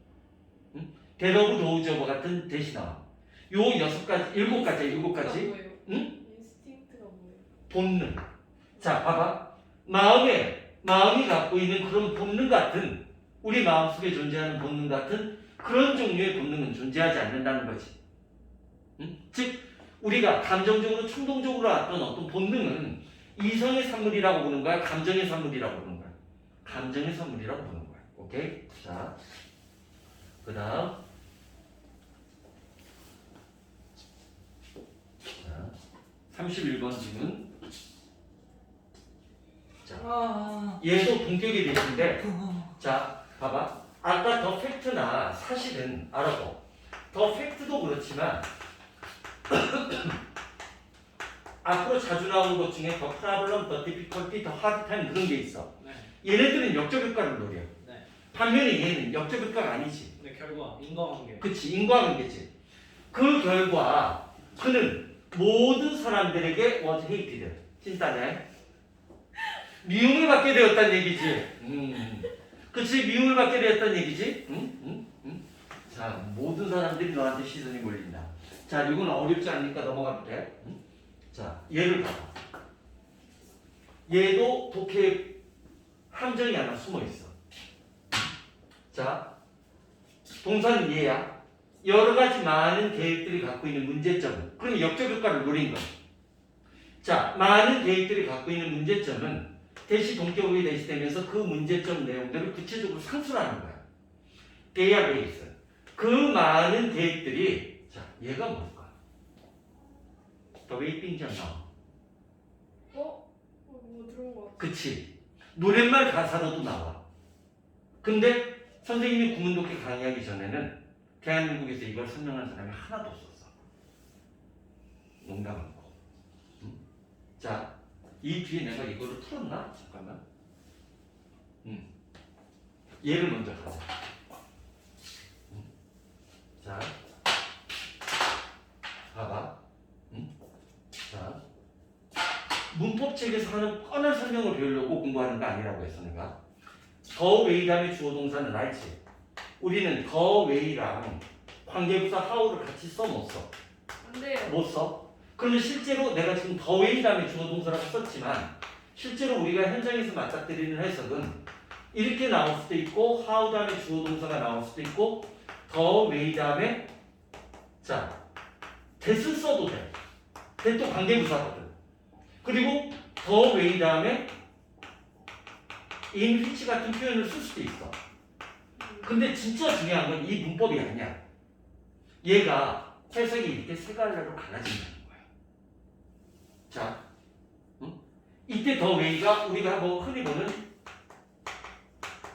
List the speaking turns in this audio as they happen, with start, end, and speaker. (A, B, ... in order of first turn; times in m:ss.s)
0:00.7-0:06.1 A
0:04.4-0:07.5 B
0:07.7-0:08.2 A
0:08.8-0:18.0 A
0:19.0-0:29.2 A
0:30.4-0:31.0 A
0:35.4-0:35.8 A
0:36.3-0:37.5 A
0:39.8-0:40.2 A
0:40.0-0:40.8 C
0:40.8-0:48.5 A
0:42.3-0:42.6 C
0:49.5-0:50.2 A
0:51.6-0:57.7 A
0:55.8-0:56.1 C
0:57.8-0:58.1 C
0:58.3-1:00.1 A
1:00.2-1:01.5 C
1:01.4-1:02.5 A
1:03.1-1:08.4 A
1:09.8-1:20.8 A
1:21.3-1:22.3 A
1:24.1-1:25.4 A
1:26.1-1:27.3 A
1:28.9-1:29.3 A
1:30.4-1:35.9 A
1:37.0-1:43.8 A
1:44.7-1:48.9 A
1:50.7-1:51.6 A
1:52.9-1:54.6 B
1:54.6-1:57.0 A
1:58.0-2:03.5 A
2:05.2-2:06.0 A
2:07.4-2:10.2 A
2:13.0-2:13.9 A
2:16.6-2:16.9 A
2:19.1-2:19.6 A
2:21.1-2:21.4 A
2:22.7-2:26.4 A
2:27.1-2:29.0 A
2:29.6-2:33.5 A
2:34.0-2:34.6 B
2:34.4-2:41.4 A
2:41.9-2:46.9 A
2:47.8-2:48.2 A
2:49.0-2:49.9 A
2:50.6-2:51.7 A
2:52.4-2:54.3 A
2:56.1-2:58.0 A
2:59.0-3:01.2 A
3:02.2-3:05.3 A
3:06.7-3:07.0 A
3:07.8-3:10.6 A